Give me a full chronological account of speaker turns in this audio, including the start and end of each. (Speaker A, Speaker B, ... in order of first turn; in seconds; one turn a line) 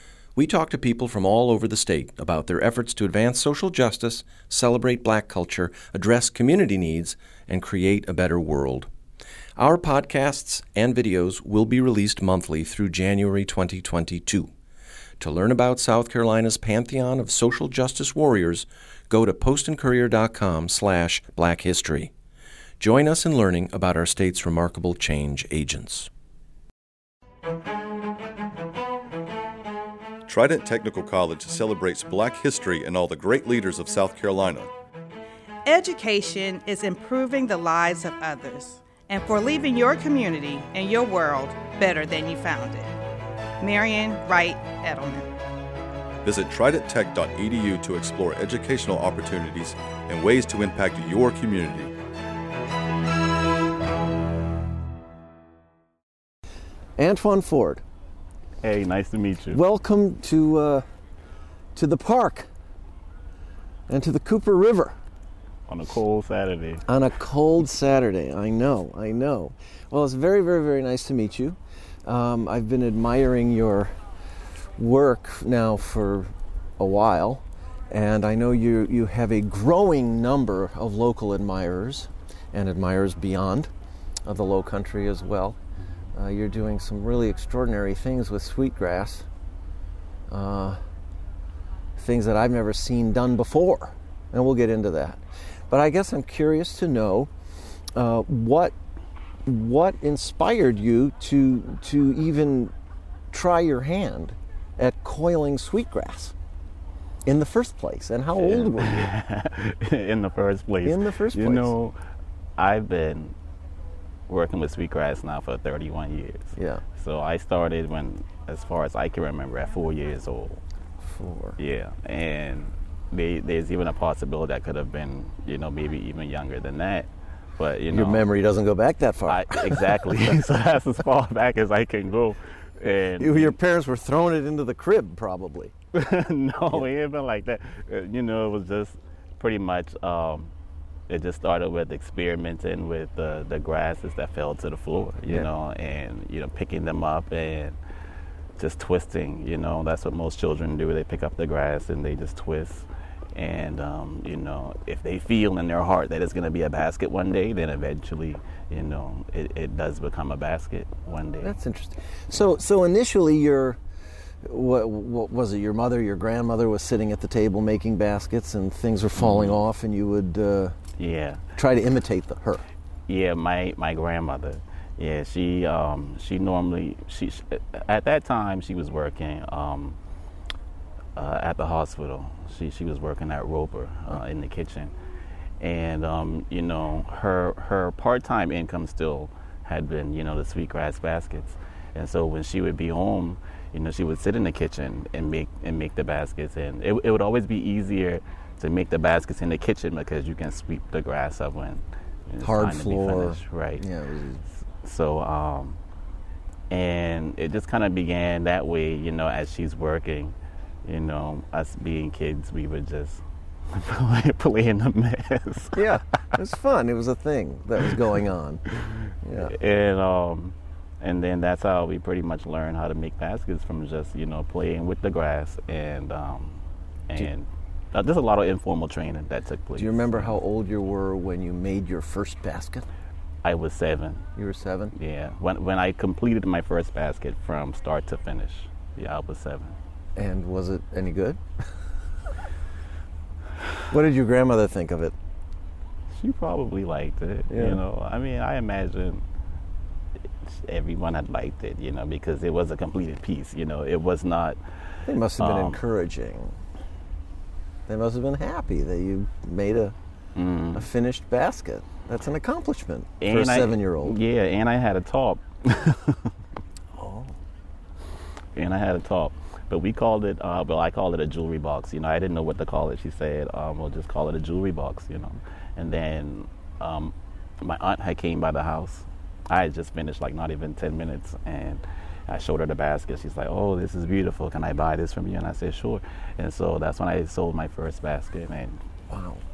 Speaker A: 0.4-8.9
Speaker A: 9.6-14.5
Speaker A: 15.2-22.1
Speaker A: 22.8-26.1
Speaker B: 30.3-34.7
Speaker C: 35.6-42.9
Speaker C: 43.6-45.3
Speaker B: 46.2-51.9
Speaker D: 57.0-57.8
Speaker E: 58.6-59.6
Speaker D: 59.5-60.9
Speaker D: 61.8-62.5
Speaker D: 63.9-65.0
Speaker E: 65.7-66.8
Speaker D: 66.9-74.0
Speaker D: 74.8-83.7
Speaker D: 84.2-85.6
Speaker D: 86.1-89.3
Speaker D: 90.3-90.8
Speaker D: 92.0-97.3
Speaker D: 98.0-98.7
Speaker D: 99.5-102.7
Speaker D: 103.3-106.3
Speaker D: 107.2-109.1
Speaker E: 108.3-112.0
Speaker D: 110.8-111.7
Speaker E: 112.6-113.4
Speaker E: 114.3-120.6
Speaker D: 116.6-116.8
Speaker D: 121.0-121.6
Speaker E: 121.6-128.2
Speaker D: 127.9-130.2
Speaker E: 129.3-133.6
Speaker D: 133.2-135.7
Speaker E: 135.9-140.5
Speaker E: 141.1-147.8
Speaker E: 148.6-161.6
Speaker D: 161.4-163.8
Speaker D: 164.4-170.8
Speaker E: 169.2-169.6
Speaker E: 171.0-171.4
Speaker D: 171.6-172.6
Speaker E: 173.1-180.0
Speaker E: 181.2-184.9
Speaker E: 185.6-203.8
Speaker D: 202.4-204.4
Speaker E: 204.6-205.8
Speaker E: 206.7-210.3
Speaker E: 210.8-216.0
Speaker D: 215.8-219.5
Speaker E: 219.4-230.3
Speaker D: 229.8-232.9
Speaker E: 233.4-234.3
Speaker D: 234.4-234.9
Speaker E: 234.9-239.8
Speaker D: 240.2-241.4
Speaker D: 243.9-245.1
Speaker E: 246.1-249.2
Speaker D: 247.5-247.8
Speaker E: 250.4-254.6
Speaker D: 255.1-256.6
Speaker E: 255.4-255.8
Speaker D: 257.9-259.9
Speaker E: 260.4-260.9
Speaker D: 260.7-264.2
Speaker E: 263.2-266.3
Speaker D: 267.0-267.4
Speaker E: 268.6-288.8
Speaker D: 289.1-289.4